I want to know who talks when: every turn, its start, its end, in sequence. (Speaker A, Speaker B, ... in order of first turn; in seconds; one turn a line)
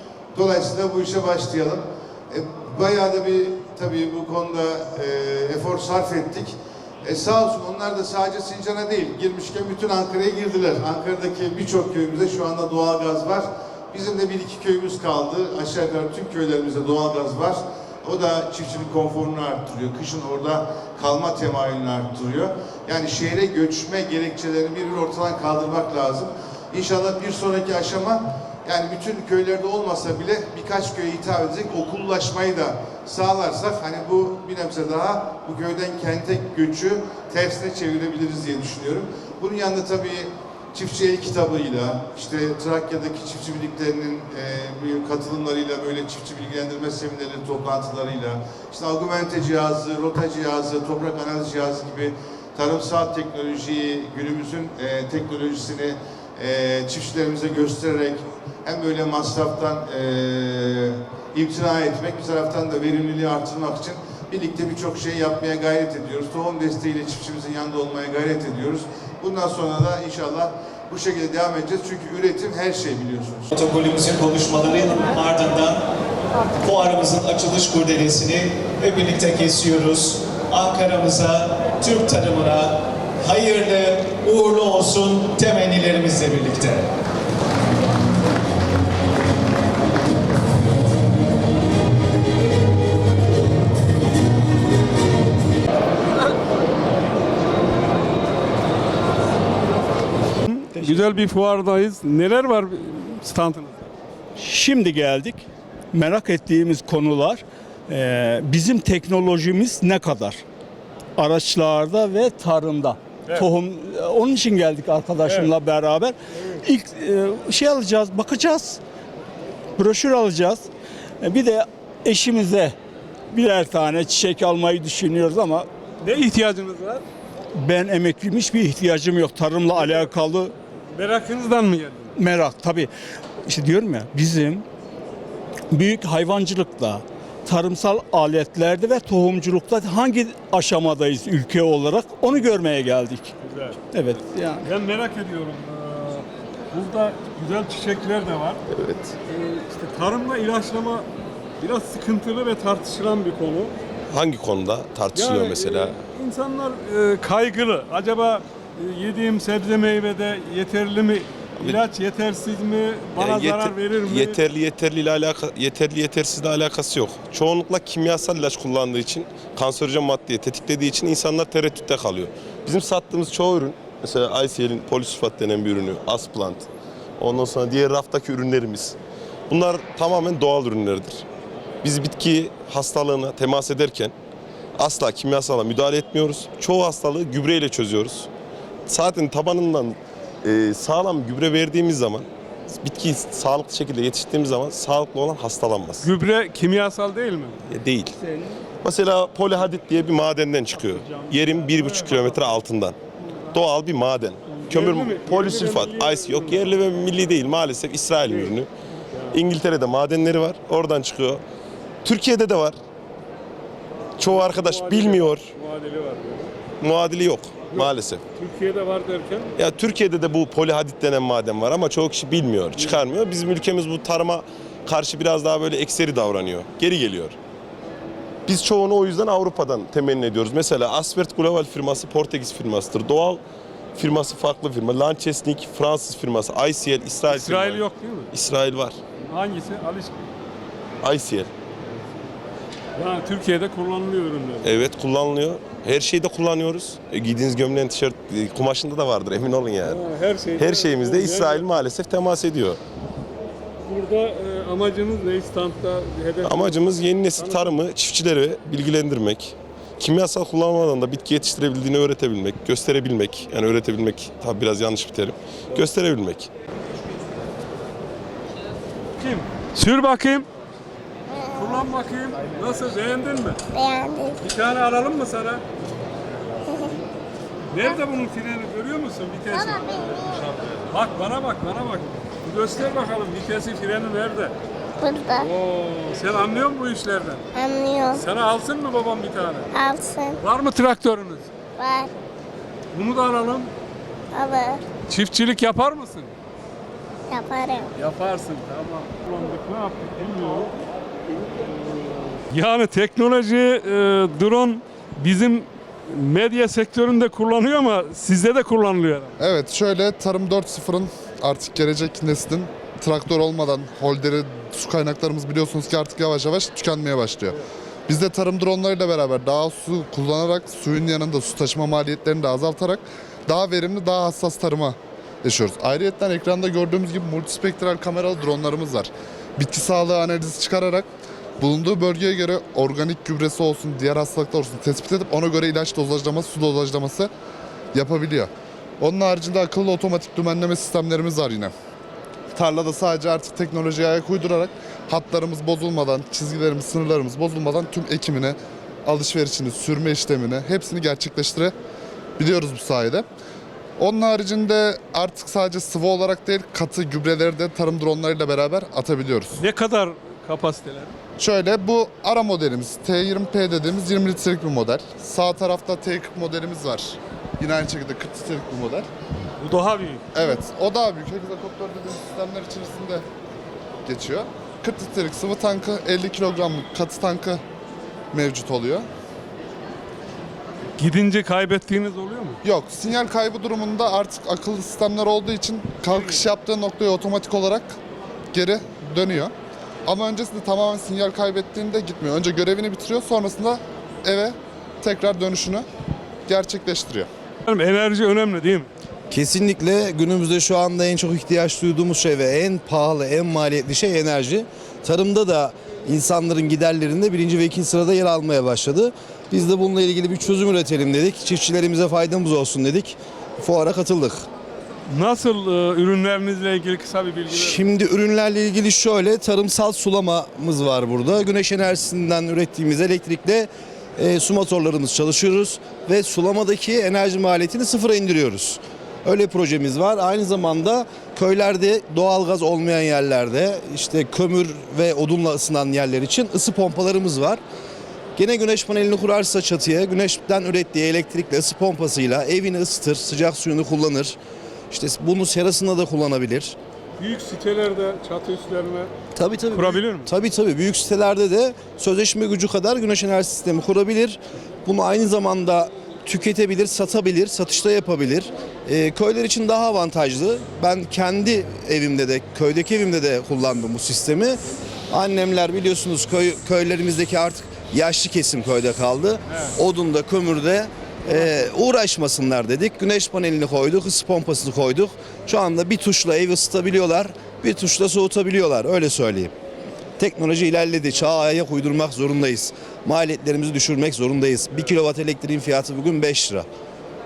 Speaker A: 0.3-73.5
Speaker B: 73.5-75.8
Speaker B: 76.6-86.9
Speaker C: 100.5-103.9
Speaker D: 104.4-110.4
Speaker D: 111.2-118.8
Speaker C: 115.2-115.5
Speaker D: 119.8-120.7
Speaker D: 121.2-122.7
Speaker D: 123.3-125.7
Speaker C: 126.0-127.0
Speaker D: 127.6-130.5
Speaker C: 130.9-132.1
Speaker D: 132.2-132.9
Speaker D: 133.5-134.6
Speaker D: 135.7-143.3
Speaker C: 143.4-143.8
Speaker D: 143.9-144.6
Speaker C: 144.6-148.6
Speaker E: 148.7-149.1
Speaker C: 149.3-151.1
Speaker C: 151.6-153.7
Speaker E: 154.1-155.9
Speaker C: 155.1-164.4
Speaker E: 161.6-161.8
Speaker E: 163.2-176.7
Speaker E: 177.2-179.0
Speaker E: 179.5-181.2
Speaker E: 181.8-184.1
Speaker E: 184.8-188.3
Speaker E: 188.9-196.1
Speaker C: 196.0-197.6
Speaker E: 197.7-198.2
Speaker E: 198.8-203.0
Speaker D: 200.8-202.2
Speaker E: 203.5-208.7
Speaker C: 204.5-206.7
Speaker C: 208.2-208.6
Speaker C: 209.1-209.4
Speaker E: 209.3-211.4
Speaker E: 212.0-212.8
Speaker E: 214.2-215.5
Speaker C: 214.2-216.5
Speaker E: 216.8-218.2
Speaker C: 217.7-219.5
Speaker E: 219.6-227.4
Speaker C: 222.8-223.1
Speaker E: 228.4-233.4
Speaker E: 233.9-239.0
Speaker C: 237.3-238.3
Speaker C: 239.2-240.3
Speaker E: 241.0-241.5
Speaker C: 242.9-244.8
Speaker E: 244.6-250.0
Speaker C: 249.8-251.7
Speaker E: 250.6-252.8
Speaker C: 253.8-256.8
Speaker E: 256.4-266.5
Speaker C: 257.4-257.8
Speaker C: 269.2-270.5
Speaker C: 271.4-273.6
Speaker F: 273.8-274.3
Speaker C: 274.4-275.6
Speaker C: 277.7-284.5
Speaker F: 285.0-285.4
Speaker C: 285.3-287.5
Speaker F: 287.6-288.2
Speaker C: 288.1-289.7
Speaker F: 289.8-290.3
Speaker C: 290.4-291.5
Speaker F: 291.8-292.1
Speaker C: 292.9-293.7
Speaker F: 294.4-294.8
Speaker C: 295.1-296.3
Speaker F: 297.3-297.9
Speaker C: 297.9-300.7
Speaker C: 301.6-309.3
Speaker A: 309.4-331.1
Speaker A: 331.6-337.3
Speaker A: 337.9-341.7
Speaker A: 342.5-348.6
Speaker A: 349.1-351.7
Speaker A: 352.4-353.2
Speaker A: 354.0-359.6
Speaker C: 359.6-361.1
Speaker A: 361.4-369.1
Speaker C: 369.6-370.2
Speaker A: 370.3-373.2
Speaker A: 374.1-377.6
Speaker A: 378.3-379.1
Speaker C: 381.0-382.6
Speaker A: 382.6-387.9
Speaker A: 388.5-389.5
Speaker A: 390.1-395.9
Speaker A: 396.5-397.3
Speaker C: 397.7-398.9
Speaker G: 399.3-414.4
Speaker C: 415.1-417.9
Speaker G: 417.5-437.6
Speaker G: 438.4-444.4
Speaker G: 444.9-446.8
Speaker C: 447.2-449.1
Speaker G: 449.3-464.6
Speaker C: 449.7-450.3
Speaker G: 465.1-479.5
Speaker G: 480.2-486.7